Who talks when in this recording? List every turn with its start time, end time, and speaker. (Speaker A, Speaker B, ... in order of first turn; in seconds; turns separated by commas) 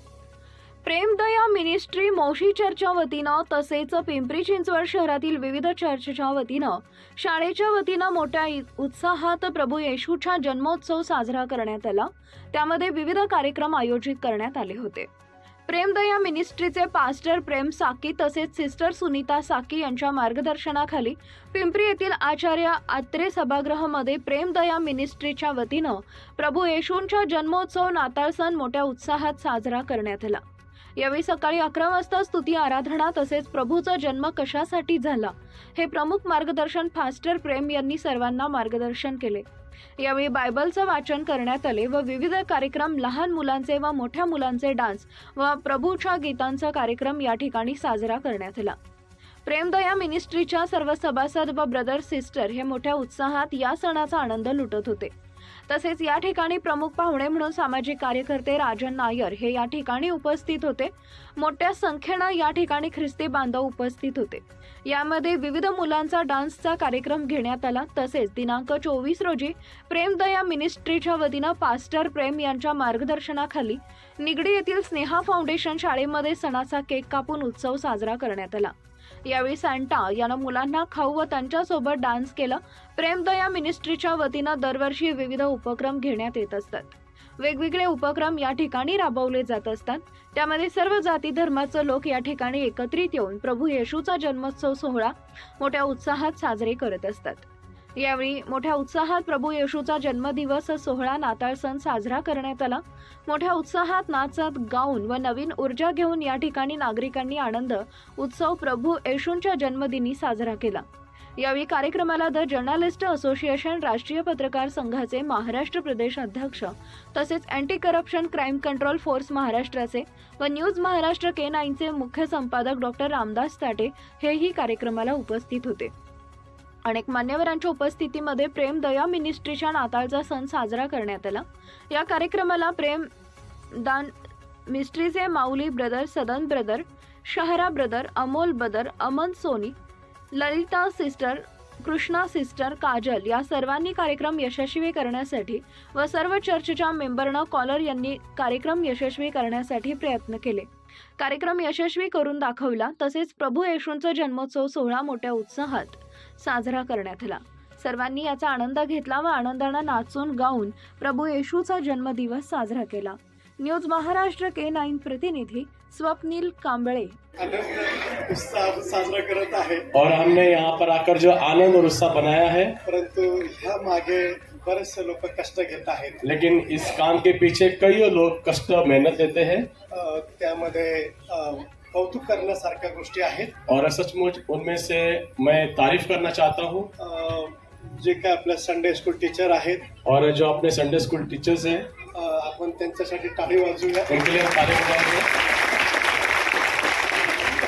Speaker A: 0.8-15.1, Speaker A: 15.7-30.4, Speaker A: 31.0-39.5, Speaker A: 40.0-48.8, Speaker A: 49.4-55.1, Speaker A: 55.7-78.7, Speaker A: 79.2-110.8, Speaker A: 111.4-125.9, Speaker A: 126.8-133.1, Speaker A: 133.7-134.1, Speaker A: 134.7-139.7, Speaker A: 140.3-167.2, Speaker B: 167.4-169.9, Speaker C: 170.0-172.7, Speaker B: 172.8-176.2, Speaker C: 176.3-179.7, Speaker B: 179.9-183.6, Speaker C: 183.7-186.8, Speaker B: 187.0-189.9, Speaker C: 190.1-191.9, Speaker B: 192.0-194.2, Speaker C: 194.2-195.0